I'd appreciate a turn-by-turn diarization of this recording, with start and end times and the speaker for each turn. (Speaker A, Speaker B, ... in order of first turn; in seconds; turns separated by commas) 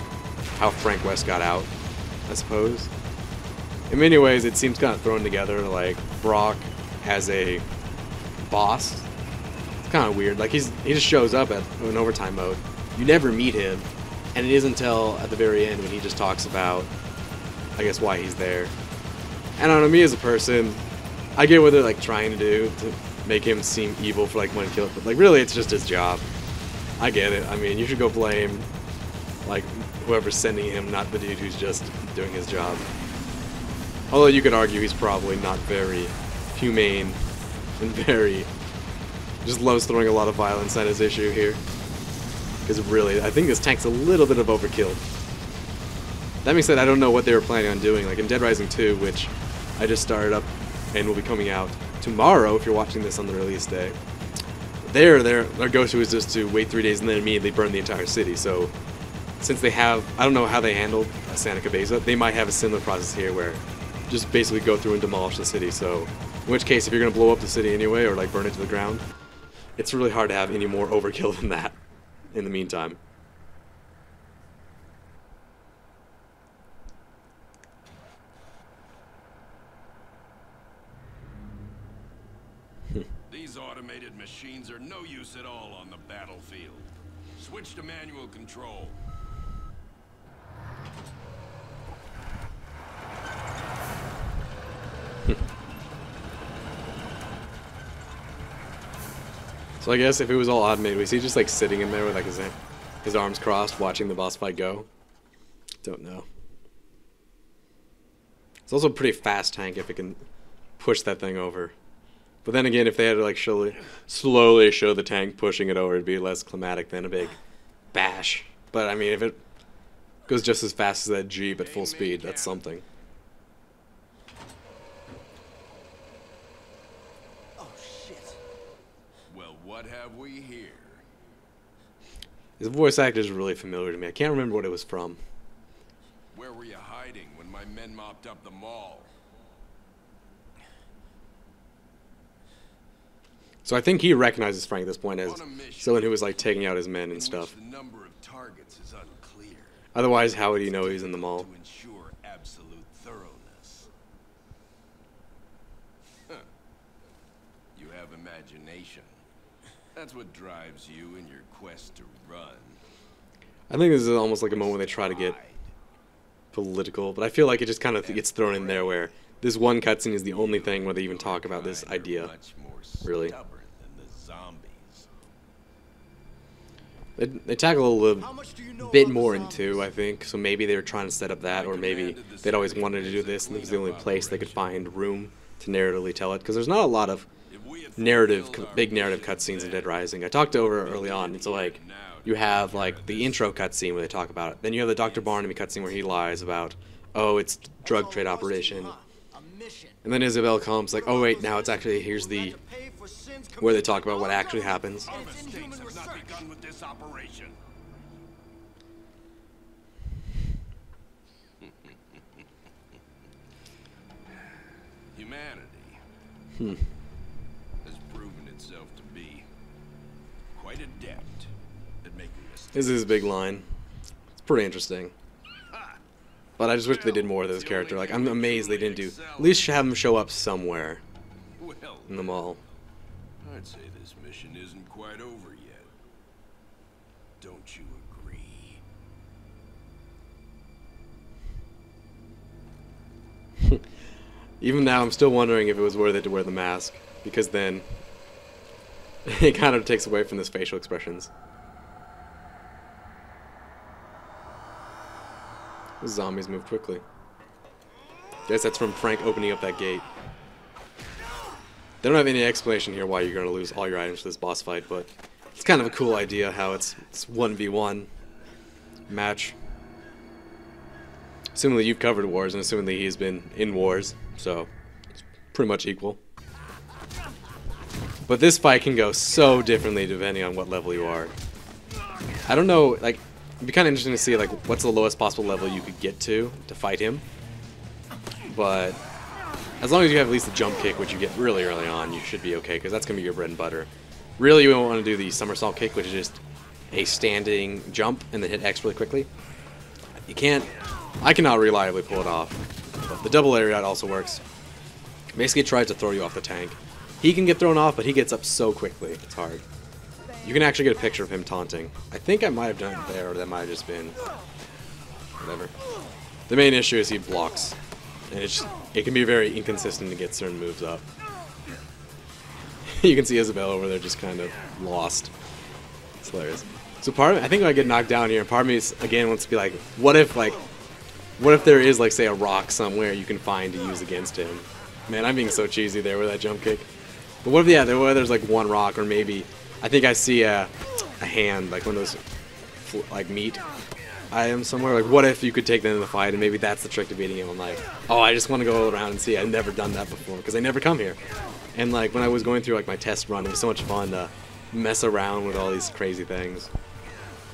Speaker A: 0.6-1.7, Speaker A: 2.3-2.9, Speaker A: 3.9-7.6, Speaker A: 8.4-9.1, Speaker A: 9.8-16.9, Speaker A: 17.8-18.7, Speaker A: 19.6-20.8, Speaker A: 21.4-26.2, Speaker A: 27.0-28.7, Speaker A: 29.4-32.9, Speaker A: 34.1-37.2, Speaker A: 37.8-38.5, Speaker A: 39.4-41.6, Speaker A: 42.6-45.0, Speaker A: 46.4-54.0, Speaker A: 54.8-58.7, Speaker A: 59.4-69.0, Speaker A: 69.8-71.8, Speaker A: 72.3-73.0, Speaker B: 83.3-89.0, Speaker A: 99.8-104.9, Speaker A: 105.8-106.2, Speaker A: 108.7-110.2, Speaker A: 110.8-111.7, Speaker A: 112.4-117.4, Speaker A: 117.9-119.4, Speaker A: 120.3-122.8, Speaker B: 121.5-122.7, Speaker C: 127.6-128.4, Speaker B: 129.3-131.0, Speaker A: 132.6-135.2, Speaker B: 136.3-139.1, Speaker A: 143.6-147.5, Speaker B: 145.2-146.3, Speaker B: 147.1-153.9, Speaker A: 149.9-151.5, Speaker B: 157.8-159.1, Speaker B: 159.9-162.8, Speaker A: 163.7-165.4, Speaker B: 164.4-165.7, Speaker A: 166.5-172.3, Speaker B: 168.0-169.1, Speaker B: 170.3-175.1, Speaker A: 173.0-173.3, Speaker A: 177.2-187.3, Speaker C: 178.2-179.9, Speaker B: 181.5-184.7, Speaker B: 187.5-190.0, Speaker A: 188.0-198.9, Speaker B: 190.5-193.5, Speaker B: 194.9-196.1, Speaker C: 197.8-200.0, Speaker A: 200.0-202.6, Speaker C: 200.8-206.4, Speaker A: 203.6-205.1, Speaker B: 205.1-207.5, Speaker B: 215.1-216.0, Speaker A: 216.6-216.8, Speaker B: 217.8-219.5, Speaker B: 220.5-221.5, Speaker B: 222.0-223.3, Speaker A: 222.7-223.7, Speaker A: 224.4-225.1, Speaker A: 226.6-231.0, Speaker B: 226.8-229.7, Speaker B: 231.6-232.6, Speaker A: 232.1-232.6, Speaker B: 233.4-235.9, Speaker B: 237.4-238.8, Speaker A: 244.6-247.9, Speaker A: 249.2-251.3, Speaker A: 256.0-257.0, Speaker A: 258.5-260.1, Speaker A: 262.0-268.1, Speaker A: 269.1-269.6, Speaker A: 271.5-274.7, Speaker A: 275.5-276.2, Speaker A: 278.3-281.3, Speaker A: 282.4-287.2, Speaker A: 288.5-289.0, Speaker A: 289.8-299.3, Speaker A: 300.3-304.4, Speaker A: 305.3-309.6, Speaker A: 310.4-314.2, Speaker A: 315.4-315.7, Speaker A: 316.5-317.8, Speaker A: 318.3-321.0, Speaker A: 322.9-325.3, Speaker A: 326.2-330.6, Speaker A: 331.4-336.9, Speaker A: 337.4-342.2, Speaker A: 342.8-343.6, Speaker A: 344.3-351.2, Speaker A: 351.7-356.7